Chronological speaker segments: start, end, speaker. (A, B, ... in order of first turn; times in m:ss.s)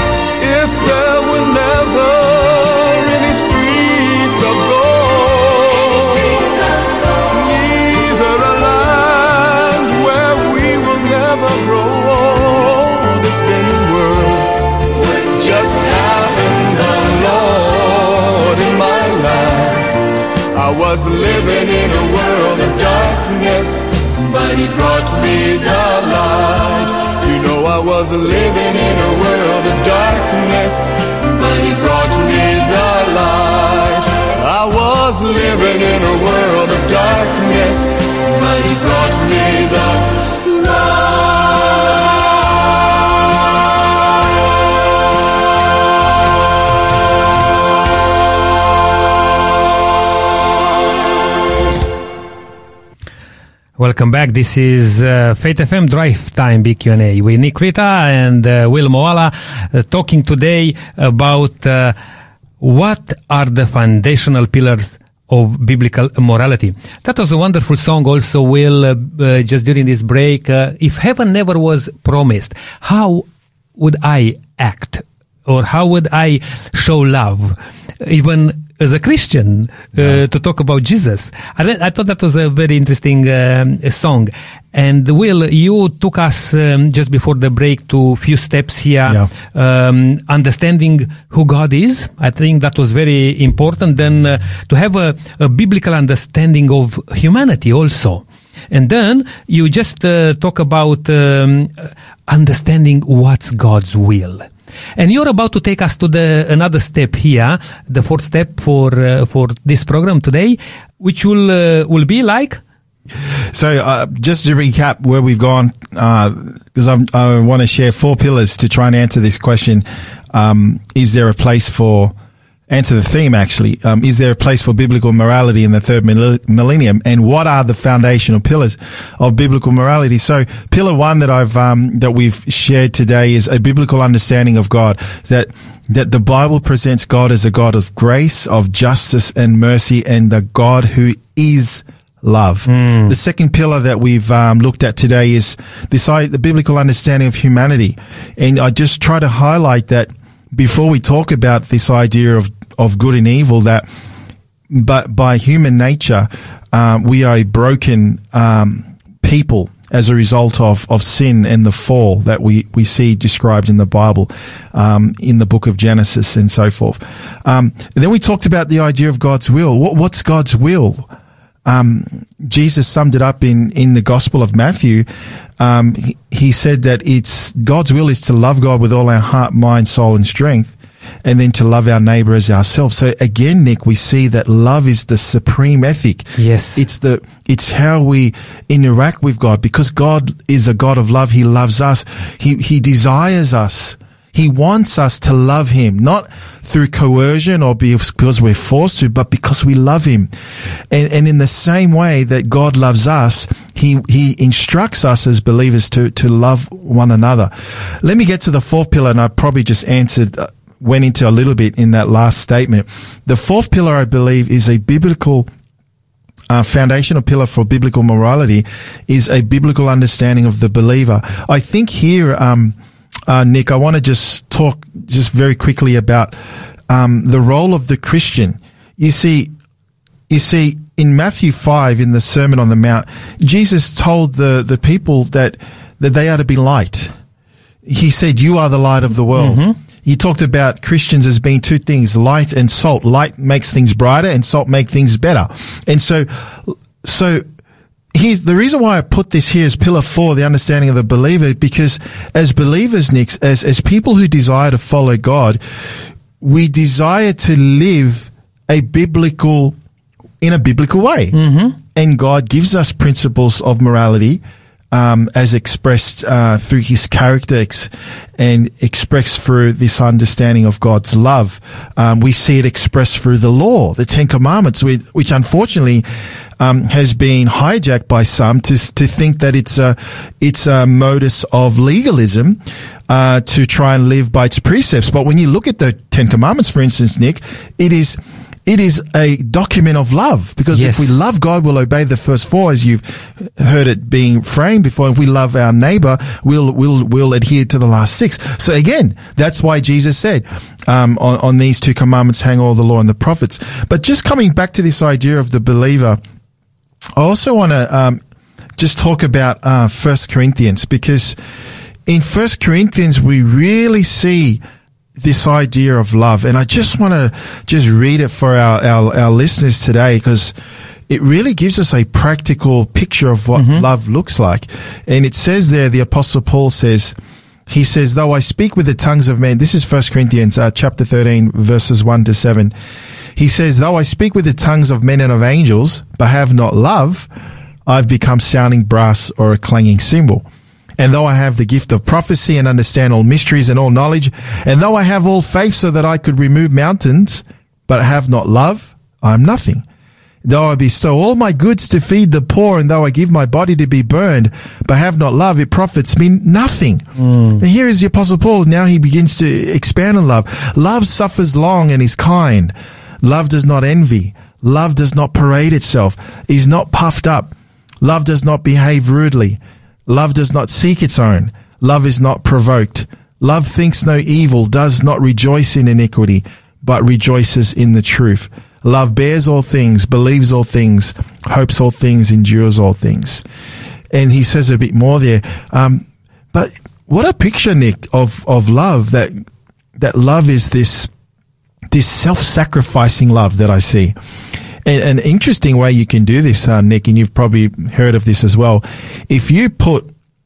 0:00.4-0:20.0 A
0:20.5-0:41.9 A
0:53.8-1:01.9 B
1:02.6-1:52.6 B
1:53.5-2:02.1 C
2:02.7-2:33.8 C
2:22.6-2:23.1 B
2:34.7-2:51.1 C
2:51.6-2:55.0 C
2:55.6-3:20.3 C
3:06.4-3:06.8 B
3:20.9-3:35.5 C
3:36.5-3:42.7 C
3:43.3-3:46.3 C
3:46.9-3:49.5 C
3:50.3-3:57.1 C
3:57.8-4:07.4 C
3:59.3-3:59.7 B
4:08.1-4:15.6 C
4:16.4-4:19.8 C
4:20.4-4:21.3 C
4:21.3-4:21.8 B
4:21.9-4:36.0 C
4:36.6-5:06.2 C
4:50.7-4:51.2 B
5:07.2-5:08.2 C
5:08.8-5:11.4 C
5:12.0-5:14.6 C
5:15.2-5:20.5 C
5:21.1-5:27.2 C
5:23.5-5:23.8 B
5:27.7-5:32.7 C
5:33.4-5:37.3 C
5:37.8-5:40.4 C
5:41.0-5:49.8 C
5:50.4-5:57.1 C
5:57.2-5:57.6 B
5:57.6-6:23.4 C
6:24.1-6:29.4 C
6:30.0-6:31.1 C
6:31.9-6:34.1 C
6:34.8-6:40.1 C